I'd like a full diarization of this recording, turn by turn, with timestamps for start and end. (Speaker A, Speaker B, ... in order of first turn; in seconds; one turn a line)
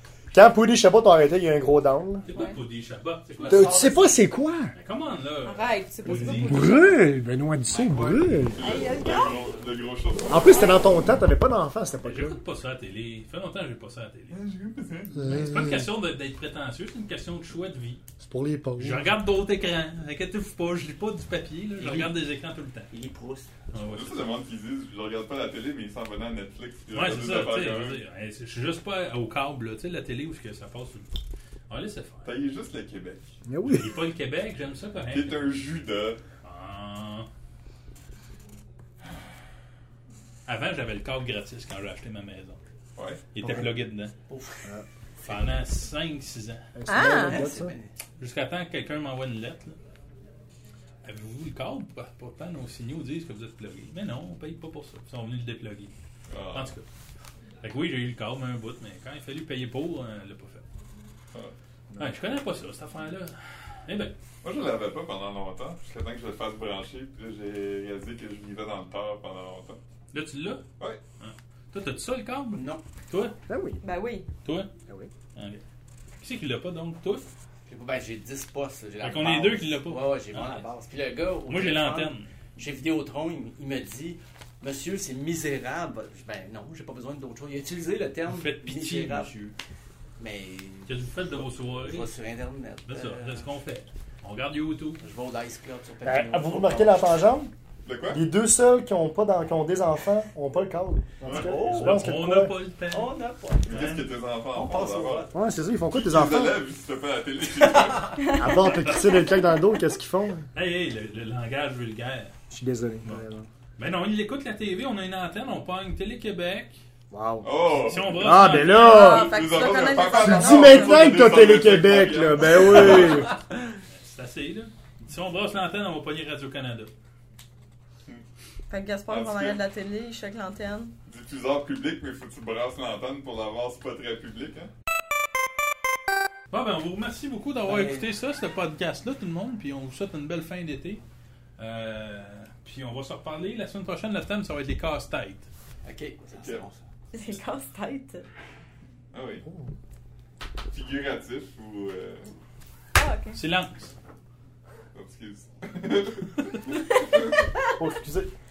Speaker A: 0.3-2.2
Speaker B: 2.3-4.0
Speaker C: 2.3-2.6
Speaker D: 3.3-4.2
Speaker A: 3.5-4.7
Speaker B: 4.7-6.8
Speaker C: 5.4-7.0
Speaker A: 6.2-8.6
Speaker D: 7.6-8.6
Speaker C: 8.6-9.4
Speaker E: 8.6-10.8
Speaker D: 9.2-9.8
Speaker A: 10.3-12.4
Speaker B: 12.0-14.4
Speaker E: 14.3-15.5
Speaker A: 15.2-15.9
Speaker B: 15.3-18.0
Speaker A: 18.2-19.1
Speaker B: 18.8-22.9
Speaker D: 21.8-22.1
Speaker D: 22.9-23.5
Speaker B: 23.7-24.2
Speaker E: 23.9-28.0
Speaker B: 26.9-31.1
Speaker B: 31.7-32.3
Speaker E: 32.2-33.3
Speaker A: 33.4-33.9
Speaker B: 33.6-35.6
Speaker E: 35.1-36.2
Speaker B: 36.4-37.3
Speaker B: 40.5-42.6
Speaker E: 43.0-43.2
Speaker B: 43.3-44.1
Speaker A: 43.4-43.7
Speaker D: 44.3-44.6
Speaker D: 45.2-45.5
Speaker B: 45.2-46.6
Speaker A: 46.7-47.7
Speaker C: 46.9-47.4
Speaker D: 47.1-47.9
Speaker B: 48.2-49.8
Speaker B: 51.0-55.9
Speaker E: 56.3-56.8
Speaker B: 56.5-56.9
Speaker B: 57.6-60.6
Speaker B: 62.0-64.1
Speaker E: 64.4-69.8
Speaker B: 70.1-70.7
Speaker B: 71.2-73.3
Speaker D: 72.5-72.8
Speaker A: 73.5-73.8
Speaker C: 73.8-74.3
Speaker B: 74.4-74.7
Speaker B: 75.3-75.6
Speaker B: 76.2-77.3
Speaker D: 77.7-89.3
Speaker B: 79.0-80.7
Speaker B: 81.5-82.3
Speaker B: 88.3-89.5
Speaker D: 90.2-93.4
Speaker B: 90.8-92.1
Speaker B: 92.9-95.0
Speaker D: 95.0-97.0
Speaker A: 96.0-97.5
Speaker E: 97.8-98.3
Speaker A: 98.1-102.5
Speaker E: 101.2-101.6
Speaker D: 101.3-102.0
Speaker B: 101.5-103.1
Speaker D: 102.9-103.7
Speaker E: 103.6-105.3
Speaker B: 103.7-104.1
Speaker D: 104.5-105.3
Speaker A: 105.3-106.6
Speaker E: 105.9-108.3
Speaker C: 108.2-108.5
Speaker A: 108.3-110.5
Speaker B: 108.6-109.3
Speaker B: 110.5-112.3
Speaker A: 112.5-113.5
Speaker B: 113.8-116.8
Speaker A: 117.1-119.3
Speaker E: 117.4-123.4
Speaker B: 117.8-119.0
Speaker C: 118.7-121.2
Speaker A: 120.0-123.3
Speaker B: 123.9-126.9
Speaker C: 128.7-130.9
Speaker E: 129.1-129.6
Speaker E: 131.1-134.7
Speaker B: 136.5-141.0
Speaker D: 137.7-138.1
Speaker B: 141.6-145.5
Speaker D: 145.8-146.8
Speaker C: 147.1-148.2
Speaker E: 149.1-149.5
Speaker A: 149.4-149.7
Speaker E: 150.7-152.3
Speaker C: 152.9-153.4
Speaker B: 153.3-153.9
Speaker E: 154.9-156.8
Speaker A: 157.8-158.3